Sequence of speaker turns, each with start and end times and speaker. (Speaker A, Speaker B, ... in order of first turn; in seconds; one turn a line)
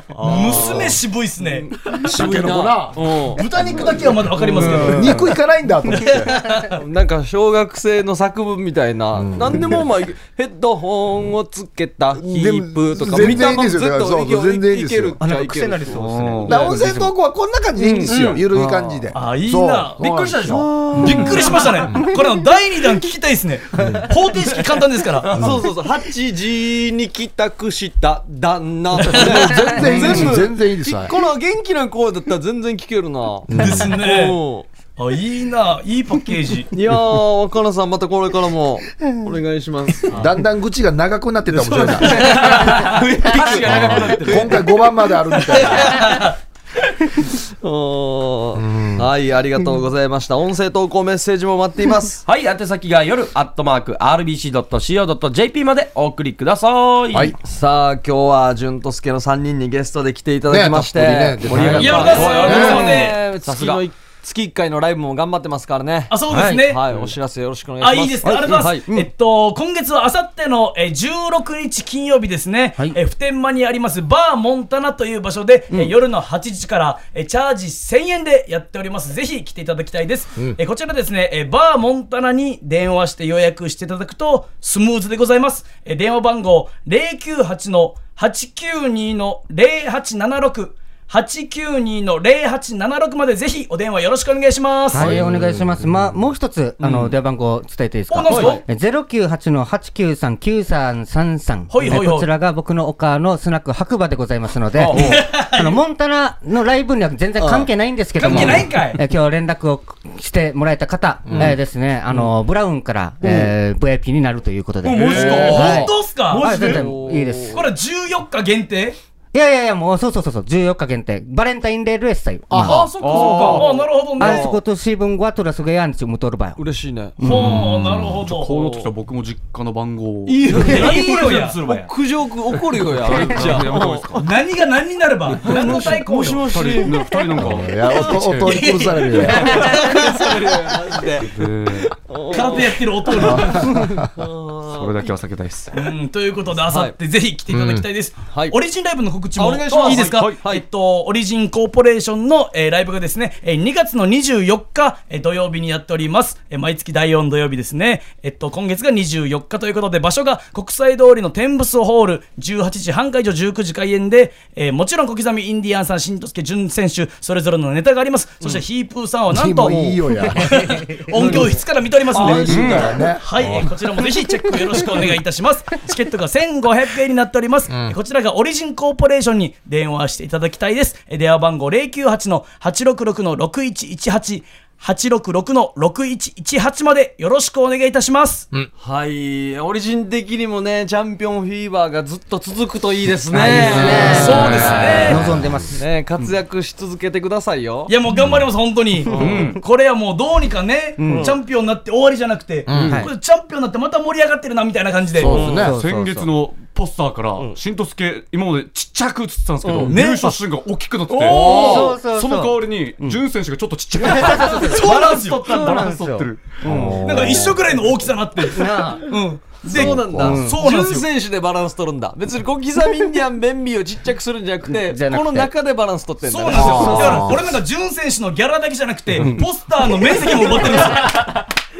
Speaker A: 0.1-0.8
Speaker B: 0.2-3.9
Speaker C: 0.2-1.7
Speaker D: 1.9-3.0
Speaker C: 3.4-5.3
Speaker D: 3.5-6.6
Speaker B: 4.5-5.2
Speaker A: 4.7-5.1
Speaker C: 5.9-6.7
Speaker B: 6.7-16.9
Speaker D: 9.1-9.8
Speaker D: 12.2-15.2
Speaker E: 15.2-17.1
Speaker A: 15.9-16.8
Speaker D: 16.4-22.1
Speaker F: 18.0-18.4
Speaker B: 18.5-19.1
Speaker C: 19.1-20.1
Speaker F: 20.0-20.7
Speaker B: 20.5-21.7
Speaker C: 20.9-25.3
Speaker D: 23.7-24.1
Speaker B: 25.2-34.7
Speaker D: 25.4-25.6
Speaker D: 29.1-31.1
Speaker C: 29.1-29.6
Speaker D: 33.5-34.0
Speaker C: 33.5-34.4
Speaker C: 35.0-36.7
Speaker B: 36.7-40.2
Speaker D: 40.1-42.4
Speaker C: 41.5-43.0
Speaker B: 42.1-44.6
Speaker F: 42.2-44.7
Speaker D: 43.5-46.2
Speaker C: 45.5-46.3
Speaker B: 47.2-52.2
Speaker D: 48.5-49.1
Speaker F: 52.2-57.4
Speaker B: 57.4-68.9
Speaker D: 60.5-63.0
Speaker C: 61.8-63.2
Speaker F: 61.8-63.8
Speaker C: 66.1-66.8
Speaker E: 66.3-66.6
Speaker C: 67.8-95.1
Speaker D: 68.2-68.6
Speaker E: 94.9-117.6
Speaker D: 94.9-96.1
Speaker C: 98.1-98.6
Speaker F: 98.3-98.6
Speaker C: 101.7-102.3
Speaker C: 104.9-105.8
Speaker B: 107.4-107.7
Speaker C: 108.2-109.0
Speaker D: 108.3-108.6
Speaker D: 111.3-111.6
Speaker D: 113.2-113.5
Speaker F: 114.8-115.9
Speaker D: 115.2-115.8
Speaker A: 115.3-115.6
Speaker C: 115.4-116.8
Speaker B: 116.4-117.6
Speaker C: 117.5-119.0
Speaker E: 119.3-122.9
Speaker D: 122.5-122.9
Speaker C: 122.6-124.6
Speaker F: 122.7-123.7
Speaker A: 123.0-123.8
Speaker B: 123.0-124.6
Speaker E: 124.2-126.6
Speaker B: 126.6-127.6
Speaker A: 127.2-130.7
Speaker C: 127.2-128.6
Speaker B: 128.5-128.9
Speaker B: 130.2-134.2
Speaker C: 130.5-131.6
Speaker F: 130.5-131.9
Speaker A: 132.7-134.3
Speaker C: 134.2-136.4
Speaker A: 135.3-138.8
Speaker B: 135.4-137.0
Speaker D: 137.3-139.6
Speaker C: 137.9-140.2
Speaker B: 139.3-141.3
Speaker A: 141.2-141.9
Speaker B: 141.8-143.6
Speaker C: 142.3-143.8
Speaker D: 143.2-144.1
Speaker B: 144.2-145.1
Speaker A: 144.7-145.7
Speaker C: 145.7-188.5
Speaker B: 146.7-146.9
Speaker D: 147.5-147.8
Speaker B: 148.3-148.5
Speaker B: 149.3-150.6
Speaker A: 149.8-150.4
Speaker D: 169.3-173.8
Speaker B: 172.2-172.6
Speaker A: 172.3-173.0
Speaker D: 177.7-177.9
Speaker B: 188.8-197.9
Speaker E: 193.3-195.8
Speaker D: 193.4-195.7
Speaker C: 194.0-195.2
Speaker A: 194.3-194.8
Speaker C: 197.9-205.4
Speaker D: 198.1-198.4
Speaker A: 199.1-199.6
Speaker E: 201.0-201.3
Speaker B: 201.1-201.3
Speaker D: 202.7-203.1
Speaker E: 202.9-203.1
Speaker D: 205.2-205.8
Speaker E: 205.2-206.3
Speaker B: 205.3-205.7
Speaker A: 205.6-216.6
Speaker B: 209.6-209.9
Speaker C: 209.9-210.4
Speaker B: 211.1-211.9
Speaker E: 211.2-213.2
Speaker E: 214.0-217.5
Speaker C: 214.6-215.8
Speaker D: 216.6-217.7
Speaker B: 216.7-217.0
Speaker C: 217.0-221.1
Speaker E: 218.5-219.0
Speaker B: 219.7-227.3
Speaker D: 219.7-220.4
Speaker E: 219.8-220.6
Speaker E: 224.7-225.5
Speaker C: 226.2-231.4
Speaker D: 226.5-227.5